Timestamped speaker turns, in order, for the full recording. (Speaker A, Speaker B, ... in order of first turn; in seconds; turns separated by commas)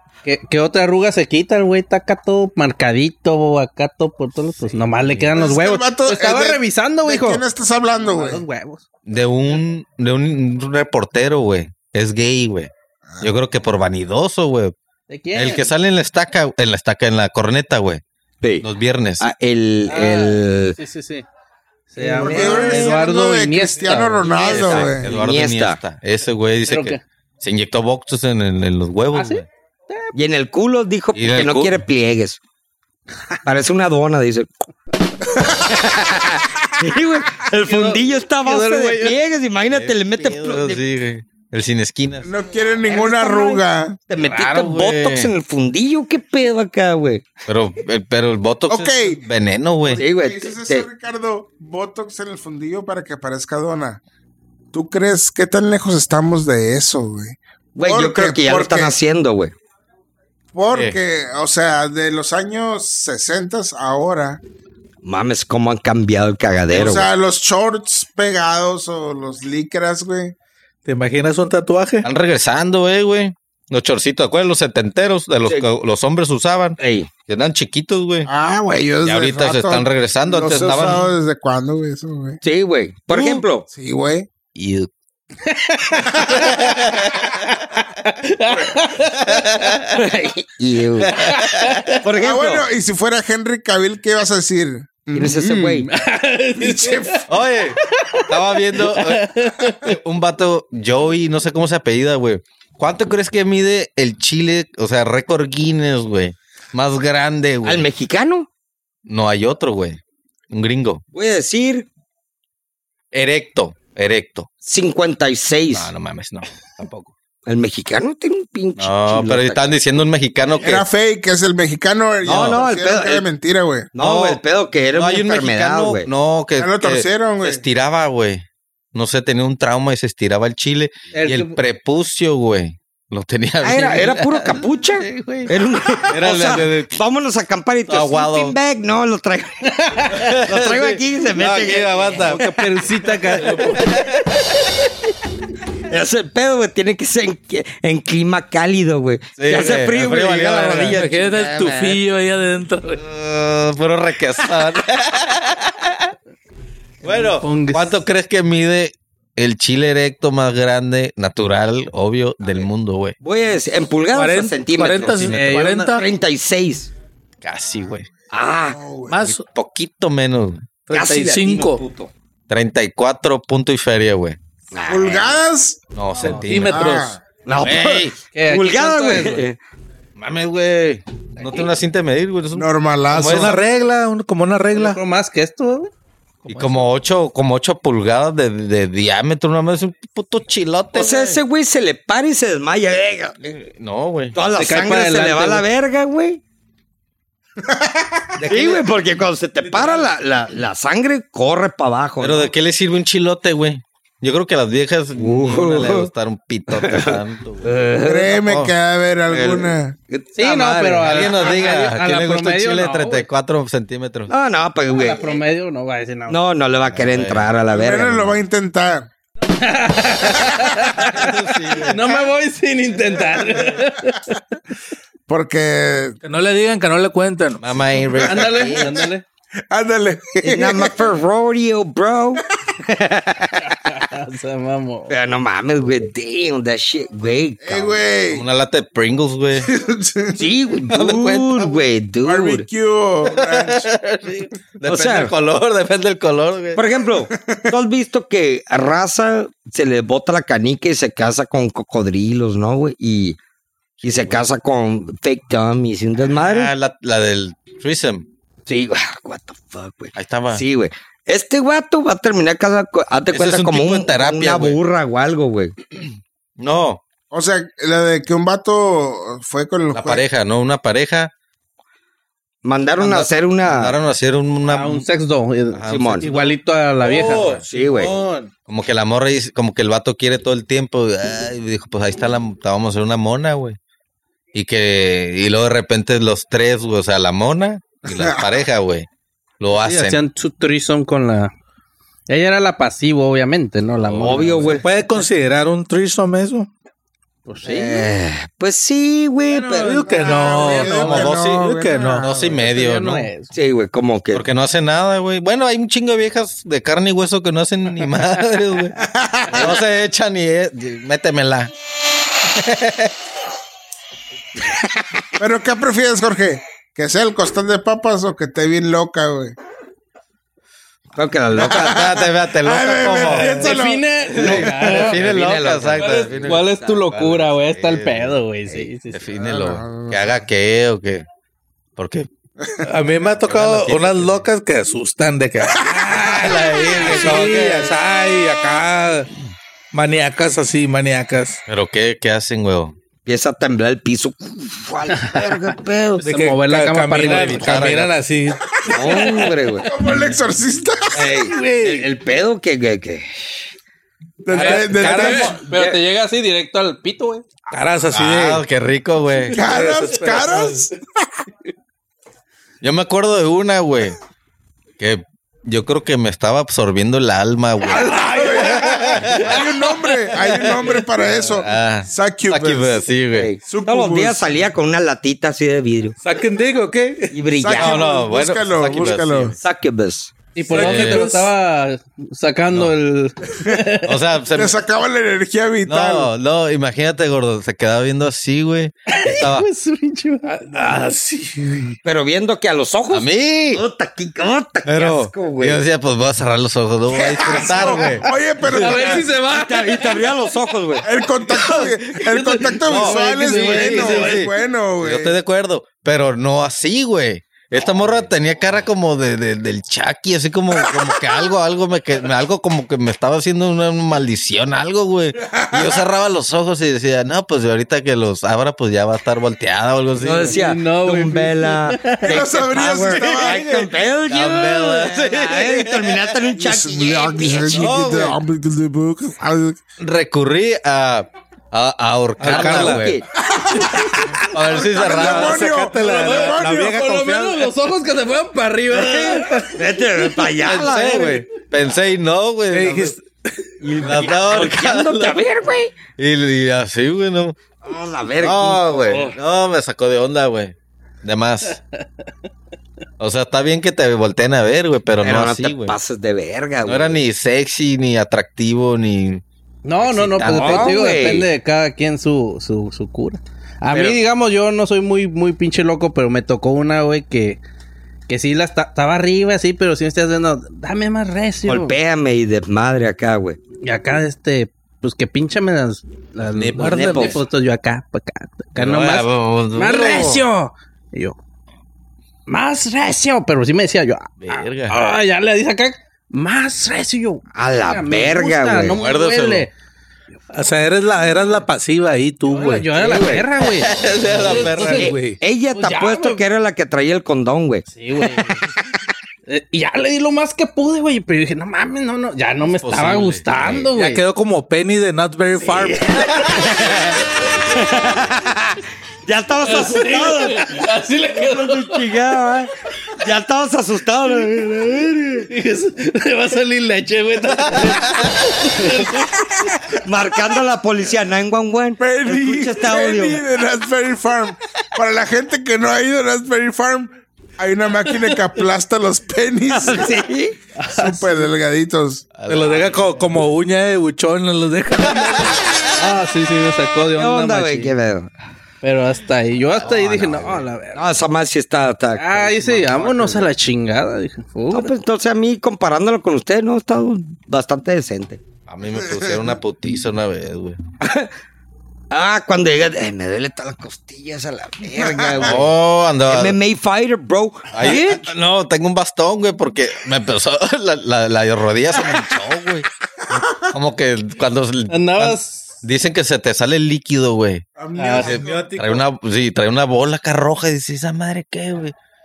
Speaker A: 0.2-7.4, Speaker B: 4.9-5.3, Speaker C: 5.3-8.4, Speaker A: 8.0-8.8, Speaker B: 9.1-14.7, Speaker A: 15.1-15.7, Speaker B: 15.3-18.0, Speaker D: 18.4-18.7, Speaker B: 18.6-19.3, Speaker D: 19.2-20.8, Speaker A: 19.9-21.3, Speaker A: 21.9-24.9, Speaker D: 22.0-23.1, Speaker C: 22.1-25.1, Speaker B: 24.3-29.5, Speaker D: 25.0-25.8, Speaker A: 26.7-27.0, Speaker A: 29.1-30.1, Speaker D: 30.1-32.4, Speaker B: 31.1-31.8, Speaker D: 33.4-34.5, Speaker D: 35.4-40.8, Speaker A: 37.7-39.1, Speaker B: 39.7-42.3, Speaker C: 42.2-44.0, Speaker D: 42.9-47.3, Speaker B: 44.2-45.3, Speaker B: 47.5-50.0, Speaker C: 48.7-49.2, Speaker D: 49.9-50.9, Speaker C: 49.9-54.0, Speaker C: 54.7-59.0, Speaker D: 57.8-59.5, Speaker C: 60.5-64.4, Speaker B: 60.7-61.0, Speaker D: 65.0-67.1, Speaker C: 66.7-70.3, Speaker E: 70.9-72.1, Speaker B: 72.0-78.3, Speaker D: 76.8-77.1, Speaker C: 78.3-82.4, Speaker B: 79.0-81.1, Speaker D: 82.4-83.7, Speaker C: 83.3-84.3, Speaker B: 84.6-84.9, Speaker A: 85.5-86.6, Speaker C: 86.2-86.5, Speaker B: 86.3-87.5, Speaker A: 87.3-89.5, Speaker B: 89.1-90.0, Speaker D: 89.9-91.1, Speaker B: 91.0-91.9, Speaker A: 91.2-92.0, Speaker D: 92.0-92.7, Speaker C: 92.2-95.9, Speaker D: 95.1-95.9, Speaker A: 95.9-97.3, Speaker C: 96.6-97.3, Speaker B: 97.3-107.9, Speaker A: 97.8-99.9, Speaker D: 107.6-108.5, Speaker B: 109.1-110.0, Speaker B: 110.5-111.0, Speaker D: 111.1-111.9, Speaker B: 113.1-114.5, Speaker D: 114.6-115.9, Speaker B: 115.7-117.1, Speaker D: 117.5-119.7, Speaker B: 118.8-120.9, Speaker C: 120.6-123.9, Speaker D: 122.2-123.3, Speaker B: 122.2-122.7, Speaker D: 124.0-126.1, Speaker B: 124.0-124.4, Speaker B: 124.9-137.0, Speaker C: 126.6-127.6, Speaker A: 131.1-131.6, Speaker D: 133.6-142.5, Speaker B: 137.9-138.6, Speaker A: 139.7-140.2, Speaker B: 140.1-142.4, Speaker A: 142.2-144.1, Speaker B: 143.4-144.3, Speaker D: 145.9-152.0, Speaker B: 149.4-151.1, Speaker E: 150.9-153.0, Speaker B: 153.0-156.1, Speaker B: 157.0-163.2, Speaker A: 157.1-158.0, Speaker D: 162.4-162.7, Speaker D: 163.2-166.9, Speaker E: 164.1-166.1, Speaker A: 165.3-165.9, Speaker B: 167.4-168.1, Speaker D: 168.3-168.8, Speaker C: 168.7-169.3, Speaker E: 169.1-169.4, Speaker B: 169.3-170.7, Speaker E: 170.9-171.8, Speaker D: 170.9-172.1, Speaker B: 172.5-174.4, Speaker D: 174.7-175.4, Speaker C: 174.9-175.8, Speaker B: 175.9-177.0, Speaker E: 176.2-177.2, Speaker C: 176.6-177.2, Speaker D: 177.4-179.6, Speaker B: 177.6-178.1, Speaker A: 178.3-179.5, Speaker B: 180.2-183.6, Speaker C: 182.5-183.6, Speaker E: 183.1-185.0, Speaker A: 184.7-185.9, Speaker B: 186.5-191.4, Speaker D: 190.9-193.4, Speaker B: 193.4-194.4, Speaker D: 194.3-196.4, Speaker A: 194.6-195.7, Speaker C: 197.6-198.4, Speaker D: 198.4-202.5, Speaker B: 198.5-198.8, Speaker E: 199.7-200.0, Speaker B: 202.2-208.7, Speaker D: 205.2-206.1, Speaker D: 206.7-208.4, Speaker C: 208.0-210.0, Speaker B: 209.3-209.8, Speaker D: 210.1-211.3, Speaker A: 210.4-213.3, Speaker B: 211.0-214.3, Speaker D: 214.3-215.4, Speaker A: 214.9-216.4, Speaker D: 216.3-218.4, Speaker B: 216.9-217.5, Speaker C: 217.7-219.1, Speaker A: 219.5-224.4, Speaker B: 221.0-222.1, Speaker C: 225.3-226.2, Speaker E: 226.2-227.6, Speaker B: 227.6-229.0, Speaker C: 228.1-229.0, Speaker A: 228.2-229.2, Speaker C: 229.7-231.1, Speaker D: 230.4-233.8, Speaker A: 233.6-235.1, Speaker D: 235.1-238.0, Speaker C: 237.6-238.4, Speaker B: 238.3-239.7, Speaker C: 239.6-240.5, Speaker D: 240.3-242.7, Speaker B: 240.9-241.8, Speaker C: 242.2-243.9, Speaker B: 243.2-246.8, Speaker D: 244.8-245.3, Speaker D: 246.8-253.4, Speaker C: 247.3-247.6, Speaker B: 254.0-254.4, Speaker D: 254.0-256.7, Speaker B: 256.4-258.3, Speaker D: 258.7-265.7, Speaker B: 260.2-260.6, Speaker B: 263.3-264.8, Speaker B: 266.6-267.0, Speaker C: 267.3-270.2, Speaker B: 269.9-271.3, Speaker D: 272.6-274.0, Speaker B: 273.0-275.1, Speaker A: 274.6-277.5, Speaker B: 275.7-276.5, Speaker D: 275.9-276.3, Speaker B: 277.1-278.1, Speaker E: 277.1-278.5, Speaker D: 277.6-278.1, Speaker B: 278.7-283.8, Speaker B: 284.5-289.1, Speaker C: 288.1-288.4, Speaker B: 289.6-290.2, Speaker A: 289.8-291.5, Speaker A: 292.3-294.8, Speaker B: 294.0-294.8, Speaker D: 294.2-294.8, Speaker E: 294.8-296.7, Speaker A: 297.5-298.1, Speaker D: 297.6-300.2, Speaker A: 299.5-301.1, Speaker E: 299.8-302.3, Speaker C: 300.1-302.6, Speaker B: 300.9-303.3, Speaker A: 302.6-303.5, Speaker D: 303.5-304.4, Speaker B: 304.3-309.0, Speaker C: 309.0-309.8, Speaker B: 309.5-311.7, Speaker B: 312.4-313.1, Speaker D: 314.6-315.2, Speaker C: 315.4-319.6, Speaker D: 321.1-322.1, Speaker B: 321.6-323.8, Speaker C: 321.6-324.6, Speaker A: 323.4-325.2, Speaker D: 324.3-327.0, Speaker B: 324.3-328.4, Speaker A: 326.0-329.2, Speaker B: 329.1-331.2, Speaker C: 329.4-330.3, Speaker B: 332.0-332.3, Speaker C: 332.6-332.9, Speaker E: 332.8-339.3, Speaker B: 333.4-334.4, Speaker C: 335.8-336.5, Speaker B: 336.2-337.9, Speaker E: 339.9-341.6, Speaker B: 341.7-342.9, Speaker D: 343.3-346.2, Speaker A: 345.2-345.5, Speaker A: 346.2-348.0, Speaker E: 346.2-349.4, Speaker B: 347.2-348.1, Speaker D: 348.9-349.9, Speaker C: 349.8-351.3, Speaker D: 351.1-353.7, Speaker E: 351.4-352.1, Speaker C: 354.4-355.6, Speaker E: 354.5-355.6, Speaker A: 354.5-357.5, Speaker D: 355.4-356.0, Speaker E: 357.7-358.6, Speaker B: 358.1-359.6, Speaker E: 359.5-360.9, Speaker C: 359.5-361.0, Speaker B: 362.8-364.2, Speaker B: 365.0-369.7, Speaker C: 367.9-373.0, Speaker E: 367.9-369.4, Speaker B: 371.4-373.5, Speaker D: 373.3-376.1, Speaker C: 373.6-374.6, Speaker E: 376.2-377.4, Speaker D: 377.3-378.0, Speaker C: 377.6-379.6, Speaker B: 377.7-379.6, Speaker D: 379.6-380.3, Speaker A: 380.6-384.2, Speaker E: 380.7-381.5, Speaker B: 380.8-381.3, Speaker B: 384.1-384.8, Speaker C: 384.5-386.3, Speaker B: 385.9-389.7, Speaker A: 389.1-390.6, Speaker E: 390.5-392.0, Speaker D: 392.1-395.8, Speaker B: 393.1-393.8, Speaker B: 394.9-398.3, Speaker C: 397.1-399.3, Speaker A: 398.6-400.4, Speaker D: 398.9-401.1, Speaker C: 401.0-405.4, Speaker B: 401.5-402.0, Speaker A: 402.2-404.5, Speaker B: 402.8-420.6, Speaker C: 415.5-416.0, Speaker D: 420.2-427.9, Speaker A: 420.4-422.4, Speaker C: 422.2-423.6, Speaker B: 422.8-426.5, Speaker C: 426.6-429.8, Speaker B: 427.7-428.4, Speaker B: 430.0-433.2, Speaker E: 432.4-433.1, Speaker D: 432.4-433.3, Speaker C: 433.5-434.0, Speaker B: 434.5-435.7, Speaker C: 434.7-437.1, Speaker E: 435.1-437.7, Speaker A: 435.9-440.4, Speaker D: 438.9-441.5, Speaker B: 440.6-443.1, Speaker E: 442.7-443.7, Speaker D: 443.8-446.0, Speaker B: 444.0-445.4, Speaker B: 446.2-447.6, Speaker D: 447.8-449.4, Speaker B: 448.4-451.8, Speaker B: 453.2-456.0, Speaker D: 455.2-457.2, Speaker B: 456.9-459.4, Speaker A: 459.9-467.6, Speaker D: 460.0-461.5, Speaker B: 460.1-460.9, Speaker D: 463.9-464.2, Speaker A: 468.3-472.0, Speaker D: 471.7-473.6, Speaker A: 473.8-481.4, Speaker E: 476.6-477.4, Speaker D: 476.8-477.4, Speaker B: 478.8-480.4, Speaker A: 482.5-489.7, Speaker B: 484.4-485.0, Speaker D: 487.5-489.0, Speaker B: 488.9-489.7, Speaker E: 490.5-492.9, Speaker A: 492.5-495.1, Speaker D: 492.9-493.5, Speaker B: 493.6-495.1, Speaker E: 494.4-495.4, Speaker D: 494.8-497.9, Speaker A: 495.7-496.4, Speaker A: 497.9-498.7, Speaker A: 499.5-504.2, Speaker B: 502.8-503.9, Speaker E: 503.9-506.1, Speaker D: 505.6-515.5, Speaker A: 506.0-506.5, Speaker A: 509.6-512.1, Speaker A: 515.5-519.3, Speaker B: 517.8-518.3, Speaker D: 519.9-523.4, Speaker C: 522.0-530.2, Speaker D: 529.7-530.5, Speaker A: 530.8-531.5, Speaker C: 530.9-532.3, Speaker B: 532.4-533.3, Speaker E: 532.5-535.7, Speaker B: 535.1-535.8, Speaker A: 536.0-537.9, Speaker D: 537.1-538.3, Speaker A: 538.8-541.0, Speaker B: 539.7-540.7, Speaker D: 540.9-543.5, Speaker A: 542.2-544.9, Speaker D: 544.7-548.4, Speaker B: 548.7-550.8, Speaker D: 551.0-551.3, Speaker D: 552.1-555.6, Speaker C: 555.0-555.4, Speaker B: 555.4-556.6, Speaker D: 556.3-558.3, Speaker B: 557.7-567.6, Speaker A: 564.9-565.7, Speaker C: 567.8-568.9, Speaker A: 568.0-568.4, Speaker E: 568.2-569.0, Speaker B: 568.2-571.9